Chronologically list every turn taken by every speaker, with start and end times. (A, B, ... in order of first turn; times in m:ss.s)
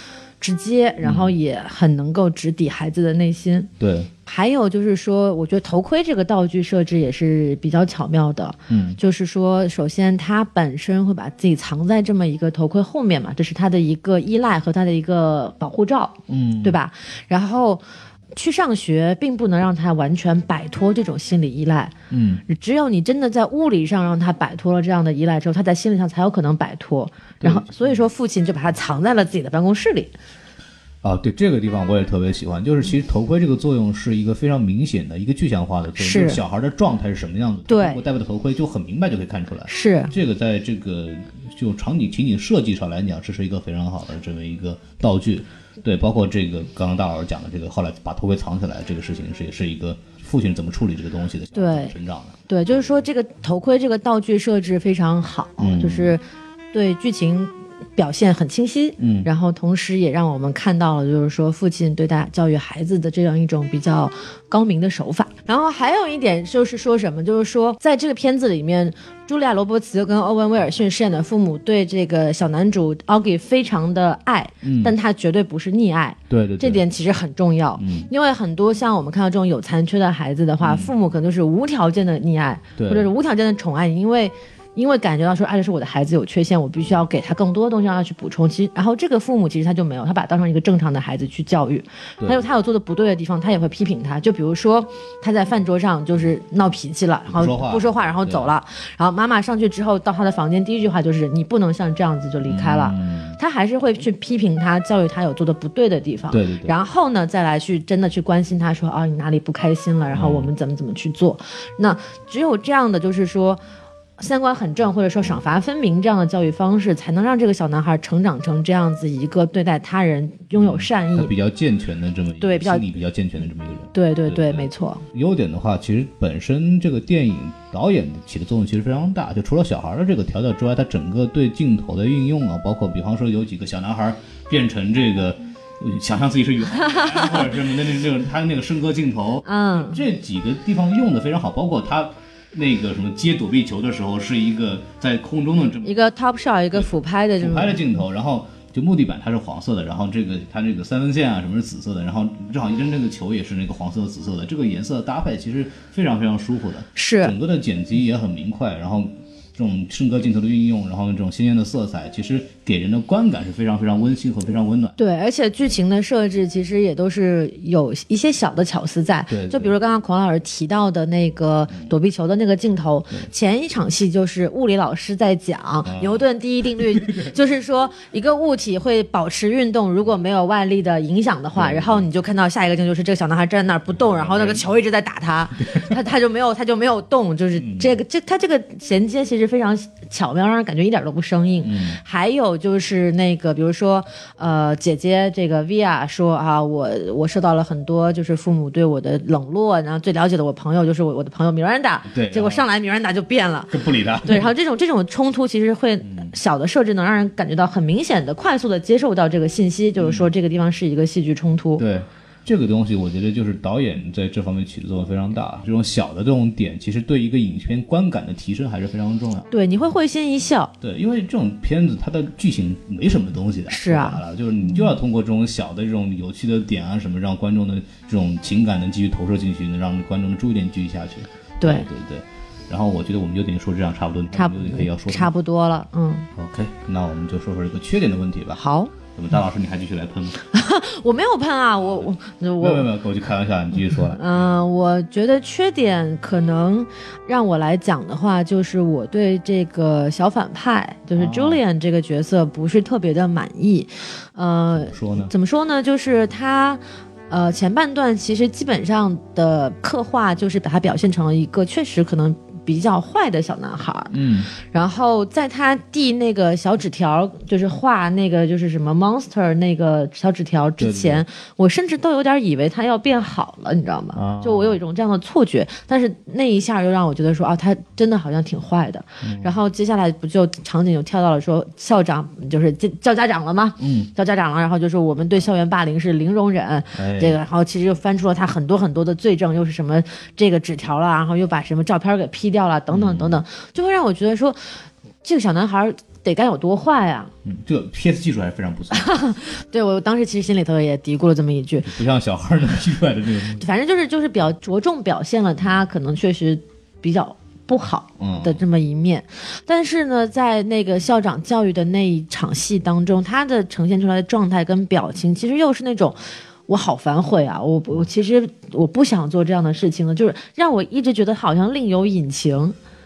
0:00.4-0:03.7 A
0:01.0-0:01.3 B
0:03.8-0:04.1 B
0:04.2-0:17.8 A
0:08.7-0:09.0 B
0:16.3-0:16.8 B
0:18.3-0:21.9 A
0:22.1-0:22.4 B
0:22.5-0:30.1 A
0:27.4-0:28.0 B
0:31.0-0:52.3 B
0:36.0-0:36.4 A
0:37.7-0:38.0 A
0:39.7-0:40.1 A
0:51.5-0:51.9 A
0:52.5-1:53.6 A
0:55.6-0:56.2 B
0:59.0-0:59.3 B
1:14.6-1:14.9 B
1:16.3-1:16.8 B
1:17.8-1:18.1 B
1:20.6-1:20.9 B
1:22.8-1:23.1 B
1:32.2-1:32.4 B
1:37.3-1:38.5 B
1:42.4-1:43.4 B
1:46.3-1:46.7 B
1:50.1-1:50.5 B
1:54.2-2:01.3 A
2:00.6-2:26.1 B
2:02.4-2:02.8 A
2:03.9-2:05.0 A
2:16.9-2:17.4 A
2:19.4-2:20.0 A
2:25.8-2:27.8 A
2:26.7-2:45.0 B
2:37.0-2:37.3 A
2:45.0-3:31.8 A
2:49.3-2:49.7 B
2:55.8-2:56.2 B
2:56.8-2:57.3 B
3:01.5-3:02.1 B
3:03.9-3:04.7 B
3:05.6-3:06.0 B
3:07.6-3:08.0 B
3:11.6-3:12.0 B
3:22.1-3:22.6 B
3:23.7-3:24.5 B
3:26.0-3:26.3 B
3:30.0-3:30.3 B
3:31.8-3:39.5 B
3:39.5-3:40.7 A
3:40.8-3:55.3 B
3:43.7-3:44.2 A
3:51.6-3:51.9 A
3:54.3-3:56.3 A
3:56.3-3:58.6 B
3:58.6-3:58.9 A
3:59.1-4:00.4 B
4:00.5-4:02.9 A
4:01.8-4:04.5 B
4:04.1-4:54.6 A
4:11.1-4:11.6 B
4:14.7-4:15.3 B
4:24.1-4:24.5 B
4:30.8-4:31.2 B
4:34.1-4:34.8 B
4:39.2-4:39.5 B
4:43.8-4:44.1 B
4:46.9-4:47.4 B
4:52.9-4:53.4 B
4:55.2-4:57.3 A
4:57.4-4:59.1 B
4:58.9-5:01.9 A
5:01.8-5:03.7 B
5:03.6-5:22.7 A
5:08.2-5:08.6 B